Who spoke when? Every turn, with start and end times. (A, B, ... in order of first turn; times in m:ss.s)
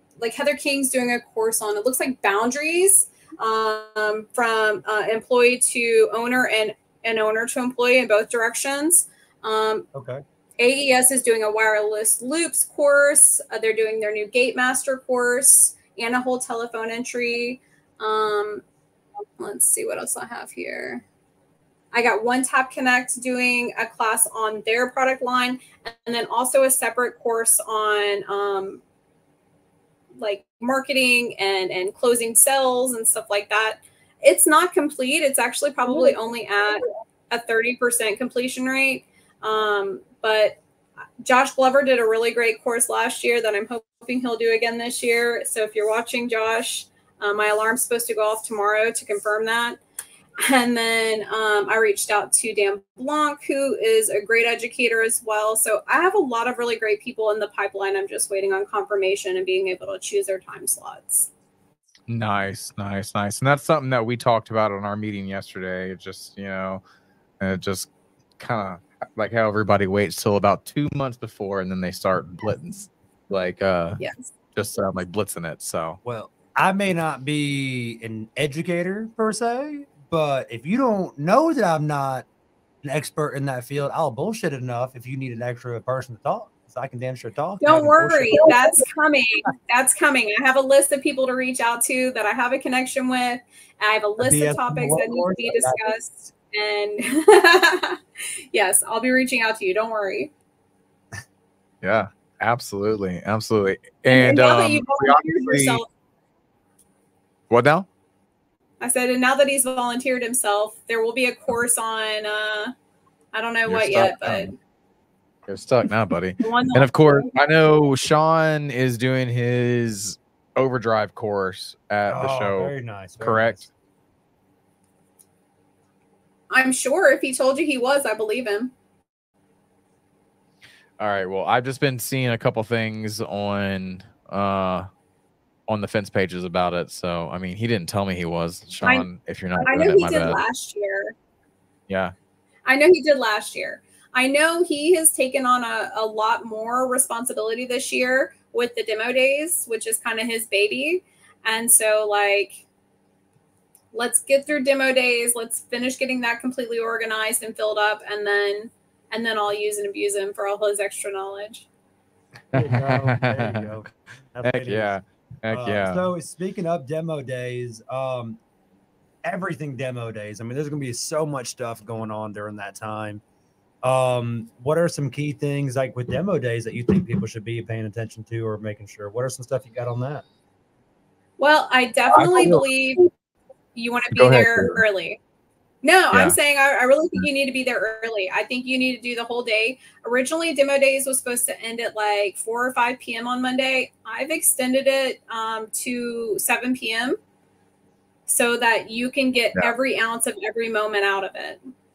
0:00.2-0:09.9 A
0:09.9-0:10.2 B
0:10.6-0:18.6 A
0:19.4-0:21.0 A
0:21.9-0:28.8 A
0:30.2-0:40.6 A
0:41.2-0:49.8 A
0:50.4-1:01.3 A
1:02.1-1:06.8 C
1:07.4-1:14.0 C
1:14.0-1:14.3 A
1:14.6-1:16.0 C
1:16.0-1:22.3 B
1:22.8-1:28.5 B
1:27.6-1:38.0 A
1:34.2-1:35.9 B
1:38.5-1:40.3 A
1:41.8-1:45.8 C
1:44.1-1:45.9 A
1:47.5-1:47.9 C
1:48.8-1:52.7 A
1:53.3-1:54.6 A
1:53.7-1:54.5 C
1:55.5-2:03.7 C
1:56.4-1:57.3 A
2:02.1-2:03.7 B
2:06.5-2:08.7 A
2:11.0-2:14.9 C
2:15.7-2:20.4 C
2:19.6-2:21.2 A
2:21.9-2:22.1 C
2:22.6-2:32.6 A
2:33.9-2:41.7 A
2:42.5-2:43.7 C
2:42.5-2:45.0 B
2:44.4-2:46.1 C
2:45.5-2:48.4 B
2:49.2-2:53.2 B
2:53.8-3:00.2 B
3:01.4-3:03.1 A
3:02.1-3:02.7 C
3:03.8-3:05.2 A
3:04.1-3:04.8 C
3:05.8-3:17.2 A
3:18.3-3:21.6 A